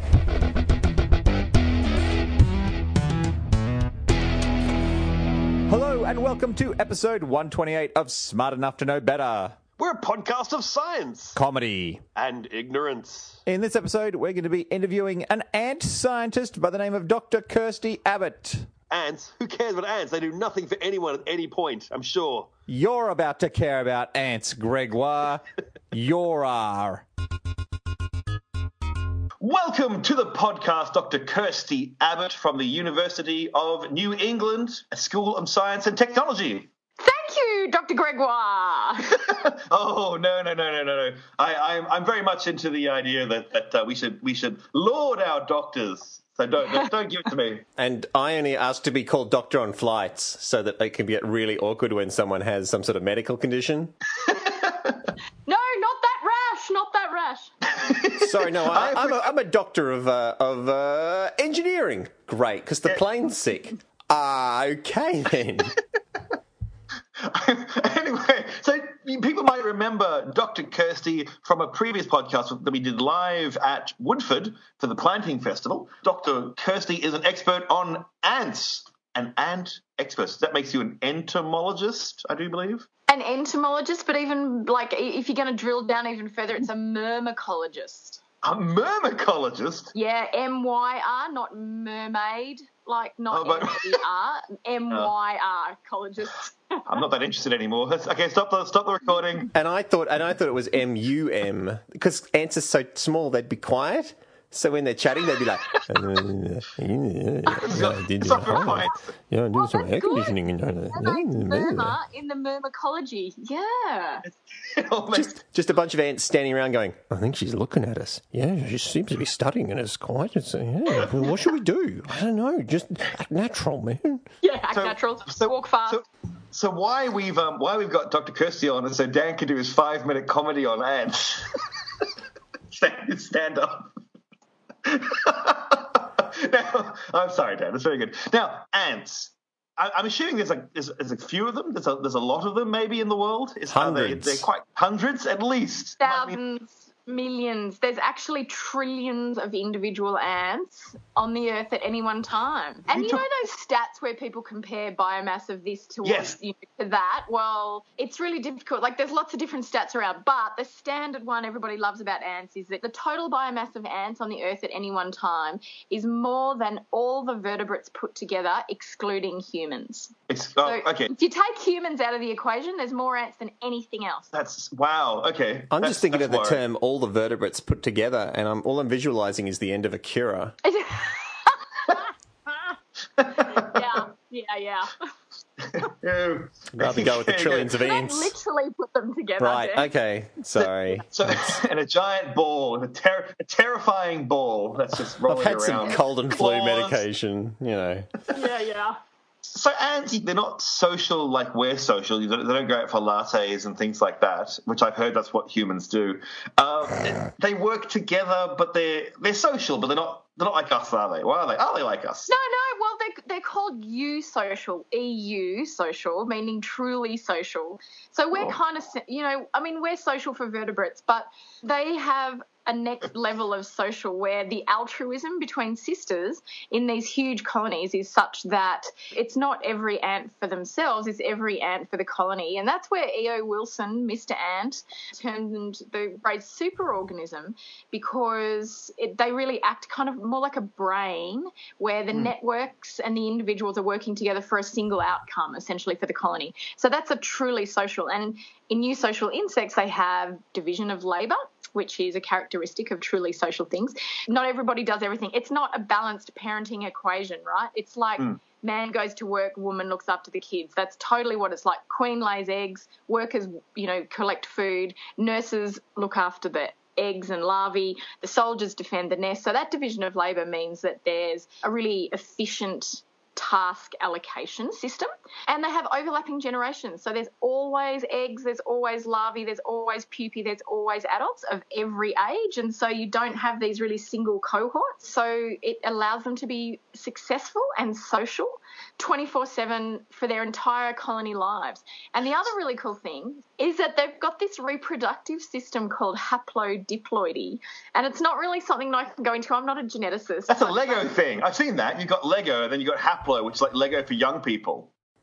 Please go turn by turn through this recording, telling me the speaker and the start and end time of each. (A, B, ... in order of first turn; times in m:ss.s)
0:05.7-0:09.6 A
0:09.8-0:11.4 B
0:11.4-0:12.0 A
0:12.2-0:13.4 B
0:13.5-0:18.7 A
0:18.9-0:22.5 B
0:22.7-0:27.0 A
0:29.4-0:36.7 B
0:37.0-0:39.2 C
0:39.1-0:47.6 B
0:47.8-0:54.0 D
0:54.3-0:55.0 B
0:55.5-0:57.5 C
0:57.7-0:59.4 B
0:58.2-1:05.8 D
1:07.2-1:22.9 B
1:23.1-1:28.2 C
1:28.4-1:29.9 B
1:29.9-1:36.9 C
1:33.3-1:34.0 B
1:36.9-1:39.5 B
1:39.5-1:52.0 D
1:47.6-1:49.1 B
1:49.5-1:54.2 C
1:54.2-1:55.4 B
1:55.1-2:04.2 D
2:04.4-2:06.0 C
2:04.7-2:12.0 B
2:12.7-2:13.9 B
2:14.8-2:26.4 B
2:23.7-2:24.5 D
2:26.0-2:50.1 C
2:32.9-2:33.2 B
2:36.0-2:36.4 B
2:50.3-2:51.1 B
2:50.6-2:54.3 C
2:54.3-2:56.6 B
2:55.7-3:00.6 D
3:00.6-3:02.1 C
3:03.2-3:03.8 B
3:03.4-3:05.1 C
3:05.6-3:07.8 B
3:06.8-3:08.4 D
3:07.8-3:09.9 C
3:09.4-3:11.5 D
3:10.6-3:17.0 B
3:15.3-3:18.1 D
3:18.3-3:19.0 C
3:19.4-3:32.3 B
3:32.3-5:01.1 C
5:00.5-5:04.9 B